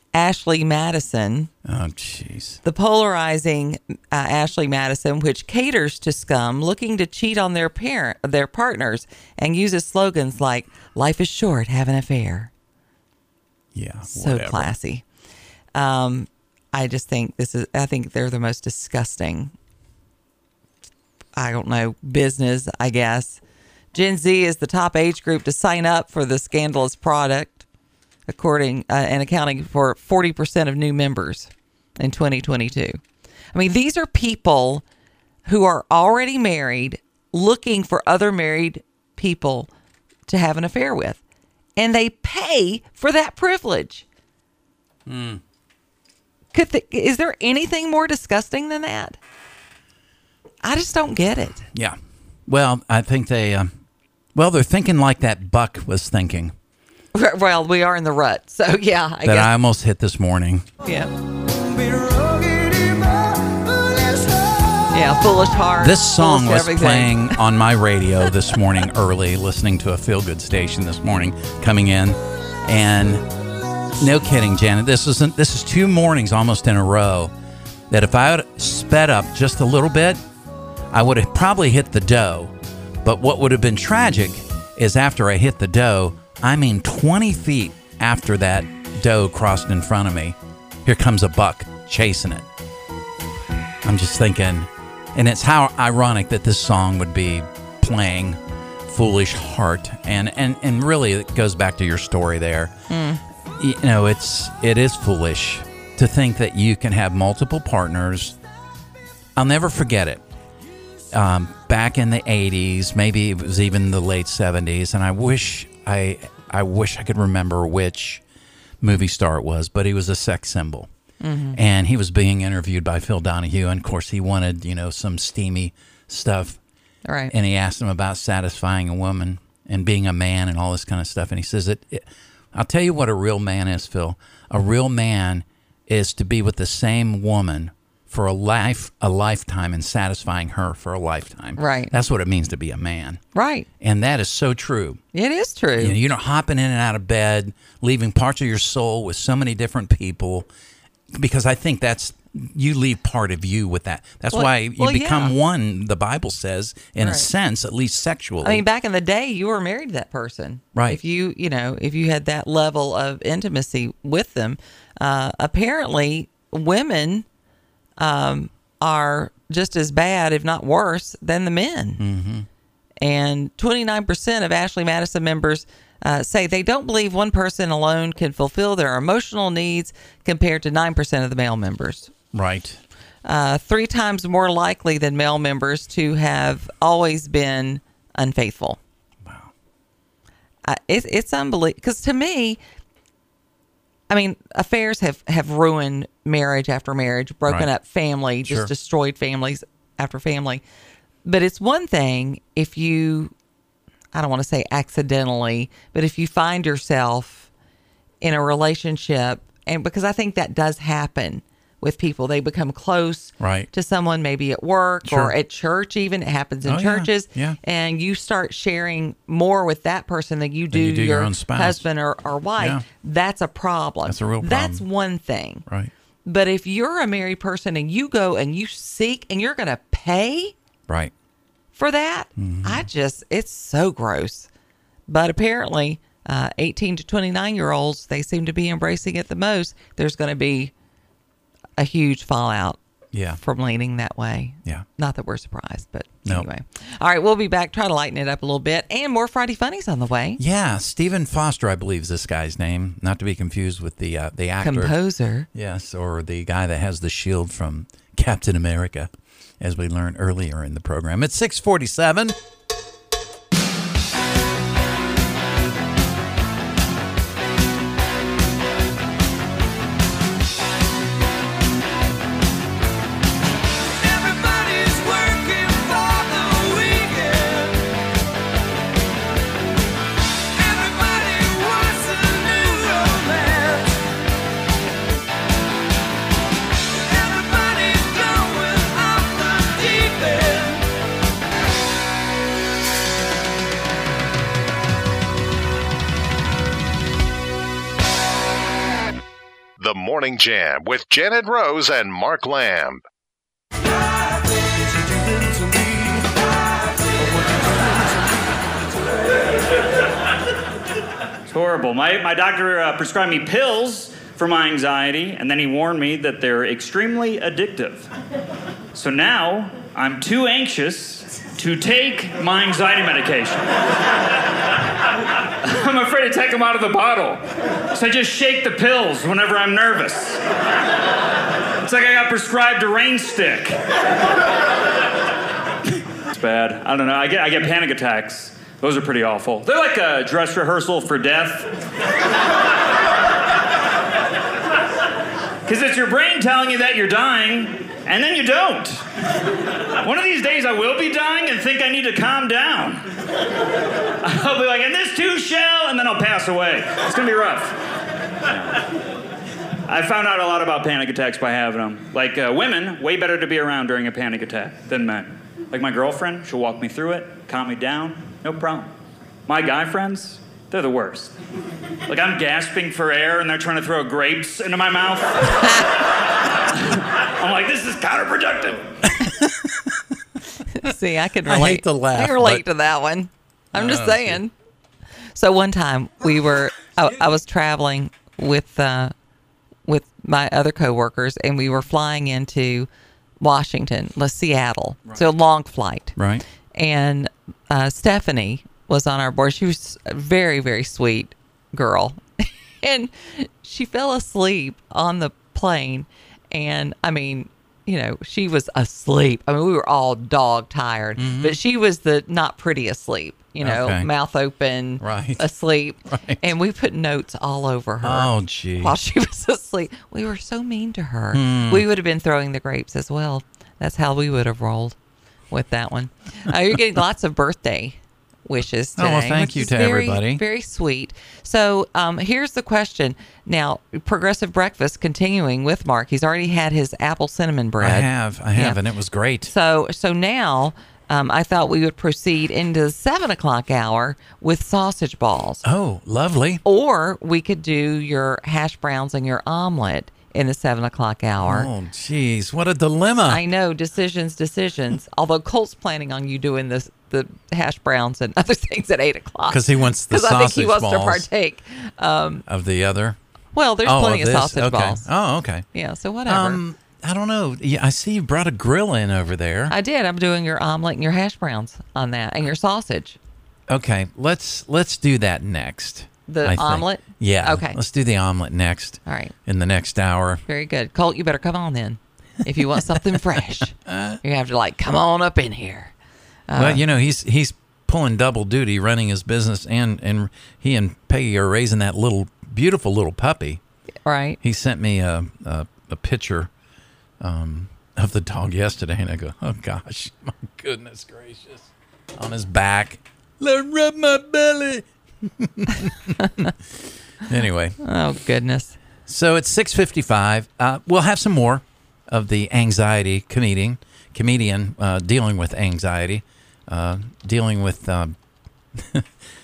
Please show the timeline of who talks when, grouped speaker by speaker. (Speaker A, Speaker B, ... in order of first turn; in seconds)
Speaker A: 0.1-1.5, 2.6-12.5, 14.1-15.0, 15.8-19.5, 21.4-23.4, 23.9-27.7, 28.3-33.0, 33.5-34.8, 35.5-39.7, 40.3-41.2, 41.8-44.0, 46.5-49.2, 50.6-51.7, 57.1-59.5, 60.8-61.1, 64.9-67.3, 102.9-103.2, 121.2-121.6, 127.1-127.3, 141.6-141.9, 143.3-143.7, 145.1-146.0, 154.3-155.3, 157.0-157.3, 158.4-167.3, 168.0-172.0, 173.0-182.1, 183.2-188.8, 190.7-192.6, 194.1-200.6, 201.2-203.3, 204.1-207.5, 208.2-225.7, 226.2-230.6, 231.8-234.5, 235.1-240.7, 241.8-242.8, 243.4-250.4, 254.6-255.5, 380.7-384.5, 385.4-389.1, 389.9-392.9, 393.4-396.1, 396.7-425.0, 425.5-438.8, 439.5-445.7, 446.6-451.7, 453.3-462.4, 463.5-465.1, 465.7-466.6, 469.7-473.2, 476.3-477.8, 479.1-479.4, 480.5-485.9, 486.5-486.8, 494.1-494.4, 507.8-508.8
Speaker B: 1.7-2.6, 13.8-14.7, 45.1-45.4, 51.7-53.7, 54.4-56.5, 59.2-60.7, 65.8-73.2, 74.0-77.3, 77.9-80.2, 80.9-92.5, 93.8-102.7, 103.6-108.4, 109.4-110.2, 111.1-118.2, 118.8-120.9, 121.5-126.6, 127.3-143.2, 143.8-145.0, 145.8-150.5, 151.2-158.6, 172.0-172.5, 182.3-182.8, 189.3-189.5, 198.4-198.7, 213.4-213.7, 215.1-215.3, 216.7-217.6, 220.7-221.8, 222.6-222.8, 224.1-224.8, 232.4-232.9, 243.1-243.4, 250.4-254.9, 255.5-262.4, 379.0-379.9, 381.4-382.6, 383.7-384.4, 396.2-396.4, 411.2-411.6, 413.6-414.1, 415.0-415.4, 416.1-416.4, 418.0-419.0, 421.3-421.9, 429.0-430.4, 437.8-439.5, 445.6-446.6, 451.4-453.4, 459.5-461.3, 462.5-463.2, 463.9-465.7, 466.3-469.8, 473.7-480.4, 483.9-484.2, 486.6-493.6, 494.4-496.5, 497.2-506.5, 507.3-507.8, 509.1-518.1, 518.8-519.1
Speaker C: 61.6-64.8, 274.0-277.9, 280.6-284.0, 287.1-290.9, 305.2-306.3, 307.4-308.1
Speaker D: 299.8-303.0
Speaker E: 311.5-318.1, 318.9-323.7, 325.6-330.4, 331.8-333.8, 336.3-341.7, 345.7-349.0, 350.0-353.1, 354.2-357.8, 358.5-358.8, 359.9-368.9, 369.5-371.3, 372.1-375.8, 376.7-378.9